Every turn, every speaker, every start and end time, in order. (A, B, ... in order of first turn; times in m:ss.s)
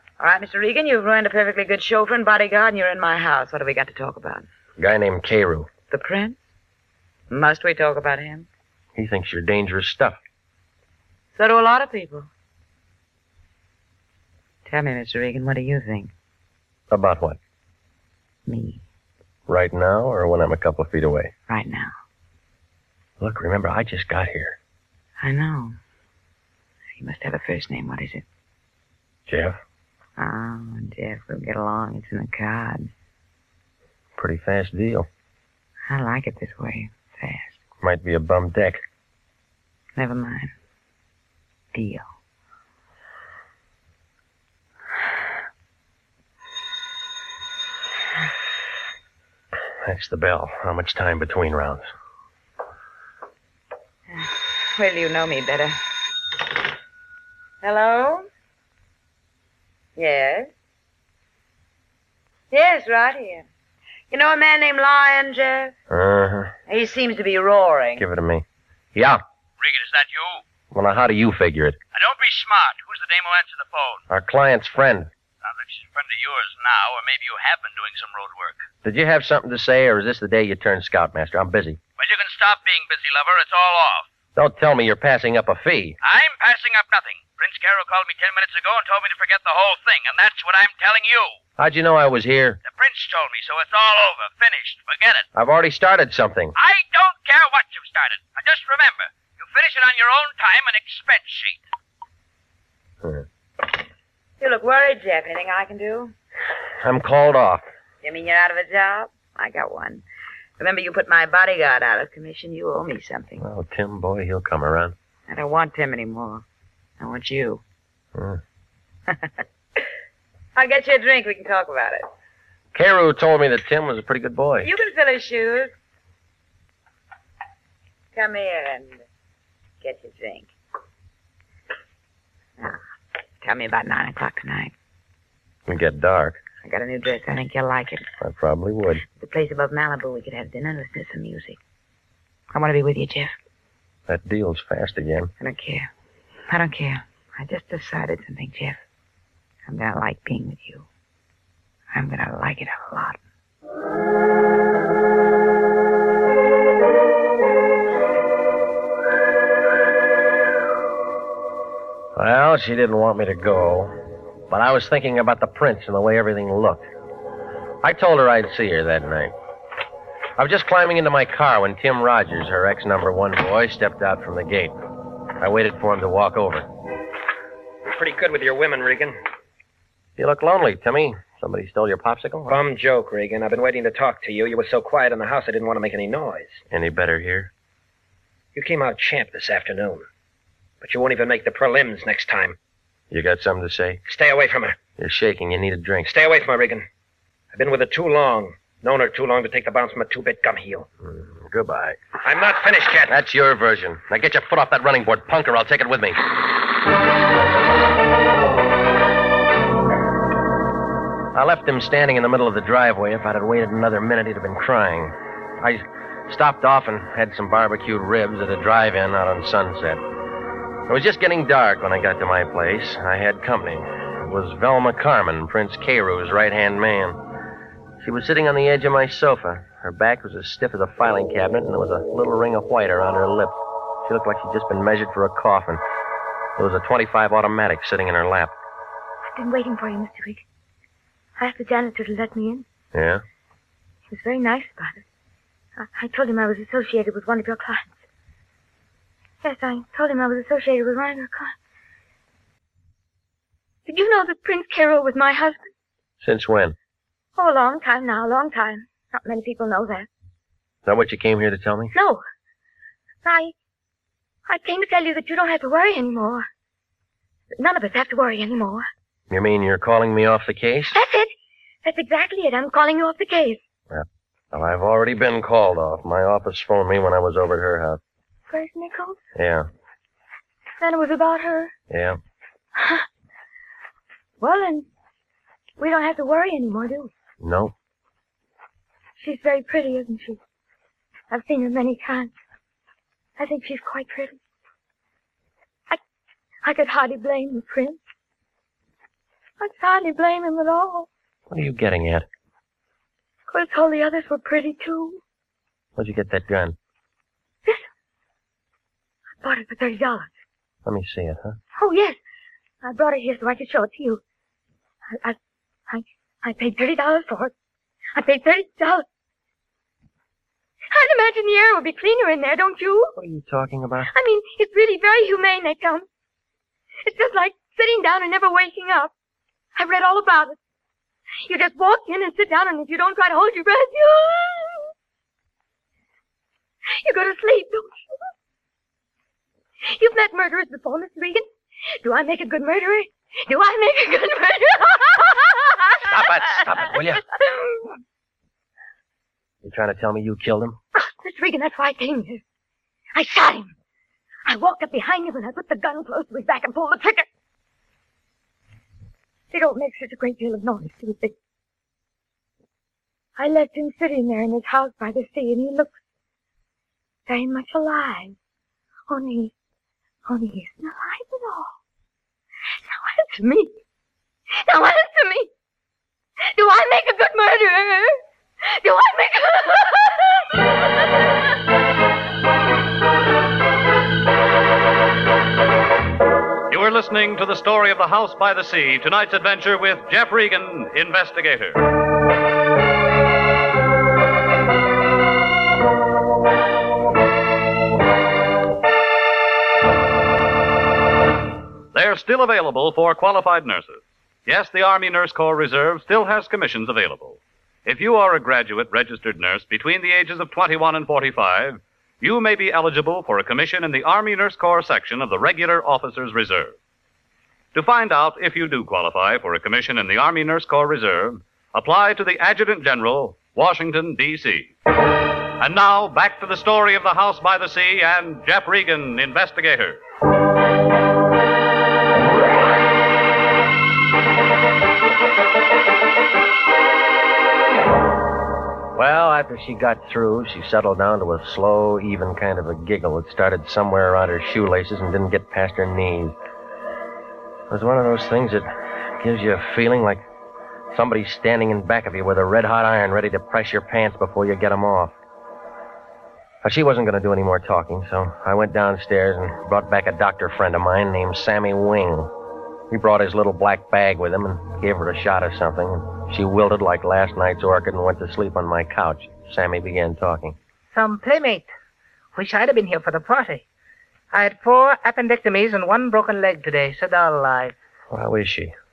0:00.2-0:04.4 A
0:04.8-0:05.7 B
0:05.9-0:06.5 A
0:07.3-0:08.5 A
0:09.0-0:10.2 B
0:11.3-0:12.3 A
0:14.7-0:16.1 A
0:16.9-0:17.4 B
0:18.5-0:18.8 A
0:19.5-0:21.3 B
0:21.5-0:21.9 A
0:23.2-0:24.6 B
0:25.2-0:25.8 A
0:27.0-0:28.2 A
0:29.3-0:29.6 B
0:30.2-0:32.9 A
0:34.2-0:35.1 B
0:35.9-0:37.6 A
0:37.8-0:38.8 B
0:40.0-0:40.5 A
0:41.7-0:42.1 A
0:49.8-0:51.8 B
0:54.1-0:55.8 A
0:57.6-0:58.3 A
1:00.0-1:00.5 A
1:02.5-1:03.4 A
1:04.1-1:05.7 A
1:05.9-1:06.5 B
1:06.7-1:08.0 A
1:08.0-1:08.4 B
1:08.9-1:09.2 B
1:09.6-1:10.4 C
1:10.7-1:11.8 B
1:11.9-1:14.0 C
1:14.1-1:15.1 B
1:15.4-1:18.6 C
1:18.8-1:21.8 B
1:22.0-1:24.0 C
1:24.4-1:26.0 B
1:26.0-1:31.3 C
1:31.6-1:32.6 B
1:32.6-1:35.2 C
1:35.3-1:36.6 B
1:36.6-1:41.6 C
1:44.4-1:46.1 A
1:46.8-1:47.6 B
1:48.0-1:50.0 A
1:50.6-1:53.4 A
1:53.4-1:54.9 B
1:55.3-1:56.4 A
1:57.0-1:57.6 A
1:58.1-1:58.4 B
2:00.5-2:02.1 A
2:02.7-2:04.7 B
2:04.6-2:05.7 A
2:08.1-2:09.0 A
2:09.8-2:10.5 A
2:13.4-2:14.7 A
2:15.7-2:16.4 B
2:16.6-2:18.1 A
2:18.2-2:19.0 B
2:19.1-2:21.6 A
2:22.5-2:23.3 A
2:24.1-2:25.3 B
2:25.4-2:25.9 A
2:26.5-2:28.8 A
2:29.7-2:30.8 A
2:31.9-2:33.2 A
2:42.2-2:43.9 B
2:44.5-2:46.8 B
2:47.8-2:49.3 B
2:50.4-2:54.7 B
2:55.4-2:56.7 B
2:57.8-2:59.2 D
3:00.2-3:02.6 B
3:02.5-3:06.6 D
3:06.7-3:07.5 B
3:08.5-3:10.0 D
3:10.8-3:12.6 D
3:13.1-3:14.0 B
3:14.1-3:14.8 D
3:15.0-3:16.1 B
3:16.0-3:16.8 D
3:17.5-3:20.9 D
3:21.0-3:22.0 B
3:22.2-3:23.1 D
3:23.1-3:26.2 B
3:31.3-3:40.0 B
3:40.9-3:47.2 B
3:48.0-3:55.8 B
3:56.6-3:58.5 B
3:59.3-4:00.4 E
4:01.4-4:02.6 E
4:02.9-4:03.2 B
4:04.1-4:05.0 E
4:05.8-4:08.0 E
4:09.4-4:11.5 E
4:13.8-4:15.7 E
4:16.2-4:16.8 B
4:17.4-4:20.1 E
4:20.8-4:21.9 B
4:21.9-4:22.2 E
4:23.2-4:23.5 E
4:24.5-4:26.4 E
4:27.5-4:28.8 E
4:29.3-4:31.0 B
4:30.9-4:31.3 E
4:31.8-4:33.6 E
4:33.9-4:38.0 B
4:38.5-4:39.2 E
4:39.4-4:39.7 B
4:40.8-4:41.7 E
4:41.9-4:42.2 B
4:42.8-4:43.0 E
4:44.4-4:44.9 E
4:45.8-4:47.1 E
4:47.4-4:47.7 B
4:49.2-4:50.4 E
4:51.3-4:52.3 E
4:53.4-4:54.4 E
4:56.6-4:58.0 E
4:59.6-5:01.1 E
5:01.5-5:02.2 B
5:03.5-5:05.2 E
5:06.0-5:06.8 B
5:09.4-5:10.3 E
5:10.8-5:11.6 B
5:11.8-5:12.2 E
5:12.8-5:14.2 E
5:15.9-5:17.5 E
5:18.1-5:19.0 E
5:20.9-5:23.1 E
5:23.1-5:24.1 B
5:24.1-5:26.0 E
5:27.0-5:29.1 E
5:29.8-5:30.6 E
5:31.4-5:34.9 E
5:37.0-5:38.0 E
5:39.8-5:41.4 E
5:42.0-5:47.9 E
5:46.1-5:47.2 B
5:49.6-5:50.8 B
5:50.9-5:52.4 E
5:53.1-5:53.7 E
5:54.4-5:57.2 E
5:59.5-6:01.3 E
6:03.4-6:05.9 E
6:07.3-6:08.4 E
6:09.1-6:09.5 E
6:10.3-6:11.7 E
6:12.8-6:13.7 E
6:14.6-6:15.5 E
6:16.5-6:18.2 E
6:18.8-6:20.4 E
6:26.7-6:31.8 F
6:41.9-6:56.8 F
6:57.7-7:04.7 F
7:05.6-7:10.0 F
7:18.9-7:26.4 B
7:27.7-7:28.7 B
7:29.2-7:30.2 B
7:30.9-7:35.1 B
7:36.6-7:42.3 B
7:42.9-7:50.6 B
7:50.9-7:51.7 G
7:52.3-7:53.6 G
7:54.3-7:57.7 G
7:58.1-7:58.7 B